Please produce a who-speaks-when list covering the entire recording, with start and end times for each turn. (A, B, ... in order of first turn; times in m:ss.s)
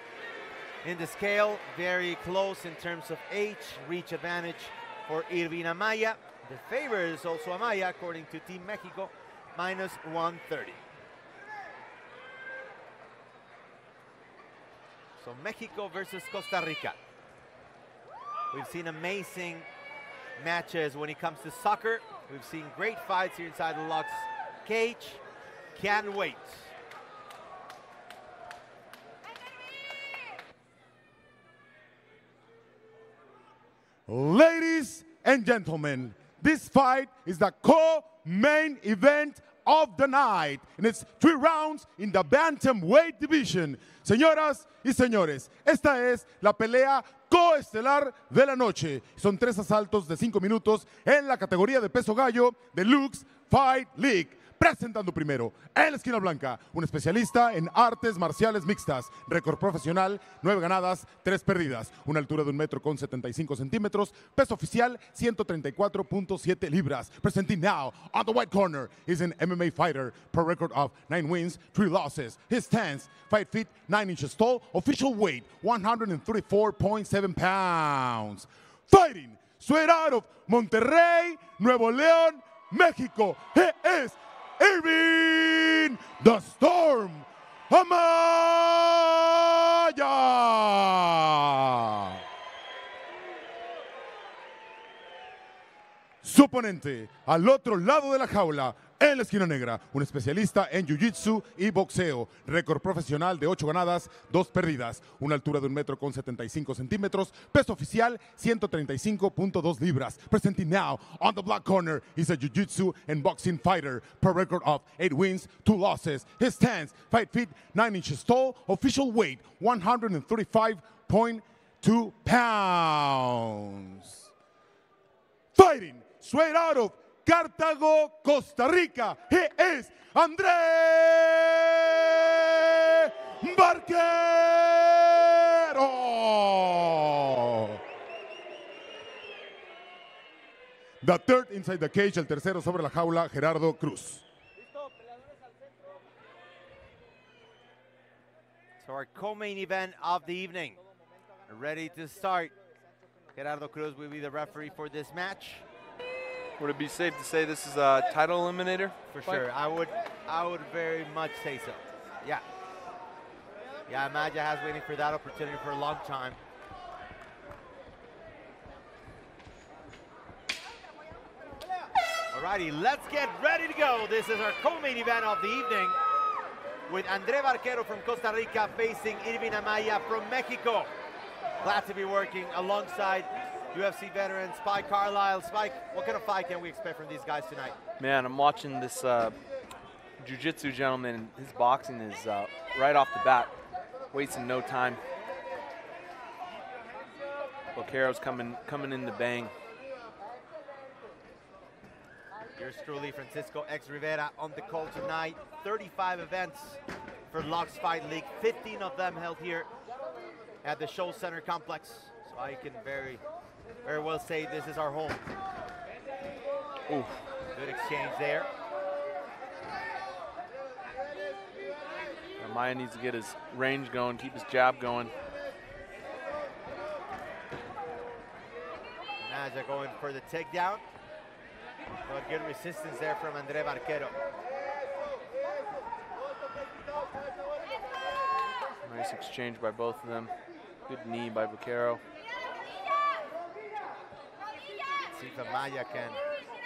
0:00.8-0:10.8 A
0:15.2-0:17.0 A
0:18.5-0:19.6 A
0:20.4-0:25.2 A
0:25.8-0:26.7 A
0:34.1-1:32.2 B
1:36.2-2:04.3 B
2:05.6-2:17.8 B
2:21.0-2:24.2 B
2:28.8-2:30.8 A
2:31.5-2:32.5 A
2:33.3-2:35.6 A
2:36.6-2:39.5 C
2:39.1-2:42.4 A
2:43.9-2:46.4 A
2:52.3-2:56.0 A
2:56.9-3:00.9 A
3:01.6-3:07.8 A
3:08.0-3:09.4 C
3:10.2-3:13.5 C
3:14.1-3:15.0 C
3:17.8-3:19.5 C
3:22.6-3:26.8 A
3:27.3-3:29.7 A
3:30.6-3:33.2 A
3:33.8-3:35.3 A
3:36.9-3:37.2 C
3:37.6-3:38.5 A
3:42.4-3:45.1 C
3:49.2-3:50.8 A
3:52.1-3:54.2 A
3:58.8-4:00.3 C
4:00.9-4:02.0 C
4:05.1-4:06.2 A